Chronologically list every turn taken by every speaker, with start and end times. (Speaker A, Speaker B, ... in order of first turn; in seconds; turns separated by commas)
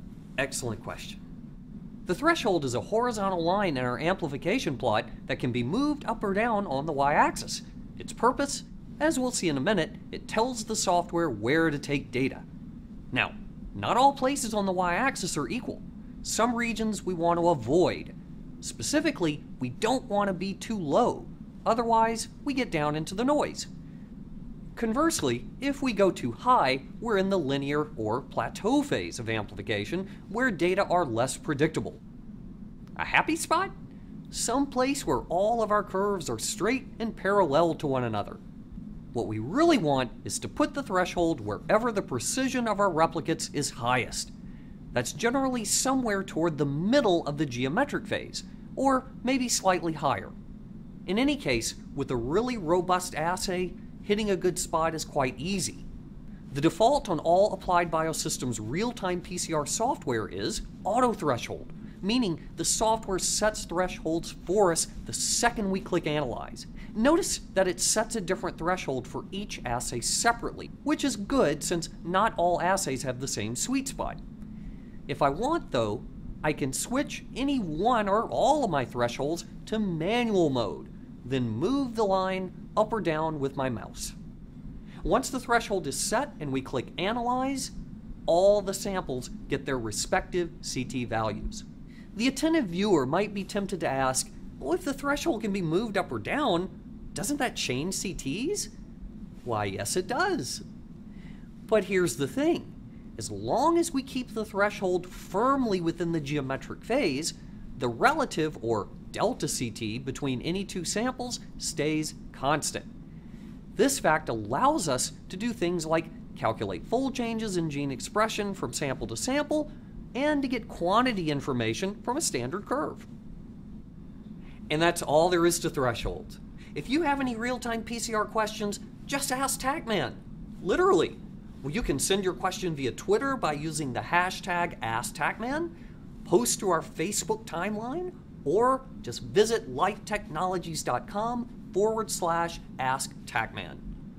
Speaker A: 0.4-1.2, Speaker A: 2.1-12.4, Speaker A: 13.1-23.7, Speaker A: 24.8-32.0, Speaker A: 33.0-33.7, Speaker A: 34.3-38.4, Speaker A: 39.1-44.3, Speaker A: 44.9-50.3, Speaker A: 51.1-55.9, Speaker A: 56.5-74.2, Speaker A: 75.1-84.2, Speaker A: 85.0-87.7, Speaker A: 88.3-98.7, Speaker A: 99.4-100.7, Speaker A: 101.7-112.9, Speaker A: 113.8-123.1, Speaker A: 124.7-135.7, Speaker A: 136.2-143.8